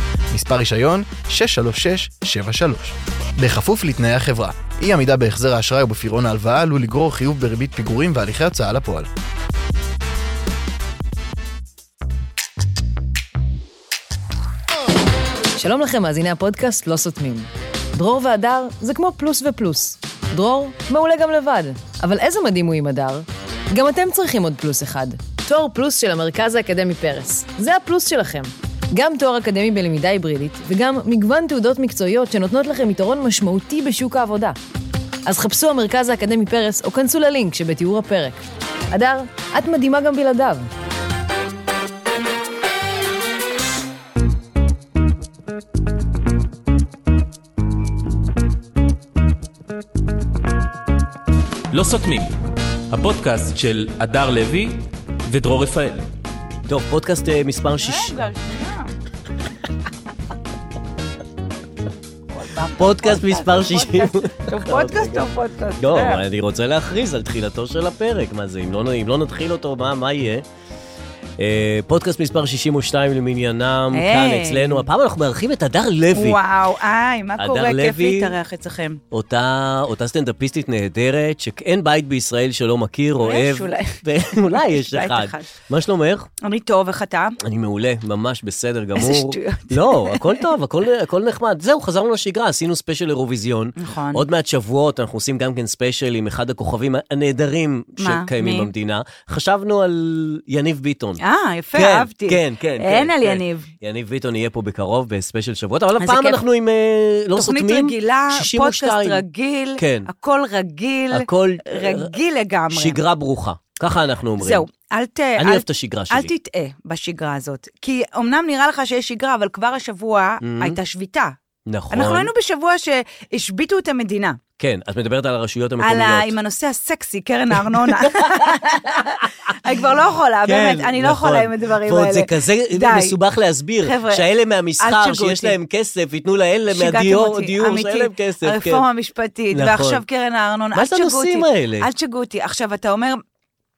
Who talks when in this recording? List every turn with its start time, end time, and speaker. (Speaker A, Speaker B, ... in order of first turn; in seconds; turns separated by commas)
Speaker A: 0.3-9.1, Speaker B: 15.6-34.6, Speaker B: 35.2-38.4, Speaker B: 38.9-40.7, Speaker C: 51.7-52.4, Speaker C: 52.9-56.1, Speaker D: 56.7-58.2, Speaker E: 57.8-58.9, Speaker E: 62.3-66.2, Speaker D: 62.8-65.3, Speaker D: 65.8-70.4, Speaker D: 71.4-76.4, Speaker E: 73.9-74.8, Speaker E: 76.1-79.0, Speaker D: 77.4-78.4, Speaker D: 79.1-86.3, Speaker E: 83.2-84.0, Speaker E: 84.5-85.4, Speaker E: 86.4-87.4, Speaker D: 87.4-101.2, Speaker E: 89.0-90.4, Speaker E: 93.8-94.2, Speaker E: 98.0-98.7, Speaker E: 101.2-103.7, Speaker D: 101.8-109.2, Speaker E: 106.0-106.4, Speaker E: 107.3-113.0, Speaker D: 109.8-110.1, Speaker D: 111.1-112.1, Speaker D: 112.7-114.6, Speaker E: 114.4-121.3, Speaker D: 115.4-116.3, Speaker D: 120.4-120.8, Speaker D: 121.7-122.3, Speaker E: 121.9-124.4, Speaker D: 124.6-126.3, Speaker E: 125.8-133.2, Speaker D: 127.7-129.6, Speaker D: 130.4-138.8, Speaker E: 133.8-134.2, Speaker E: 134.8-135.6, Speaker E: 136.7-143.2, Speaker D: 139.5-140.0, Speaker D: 140.7-141.9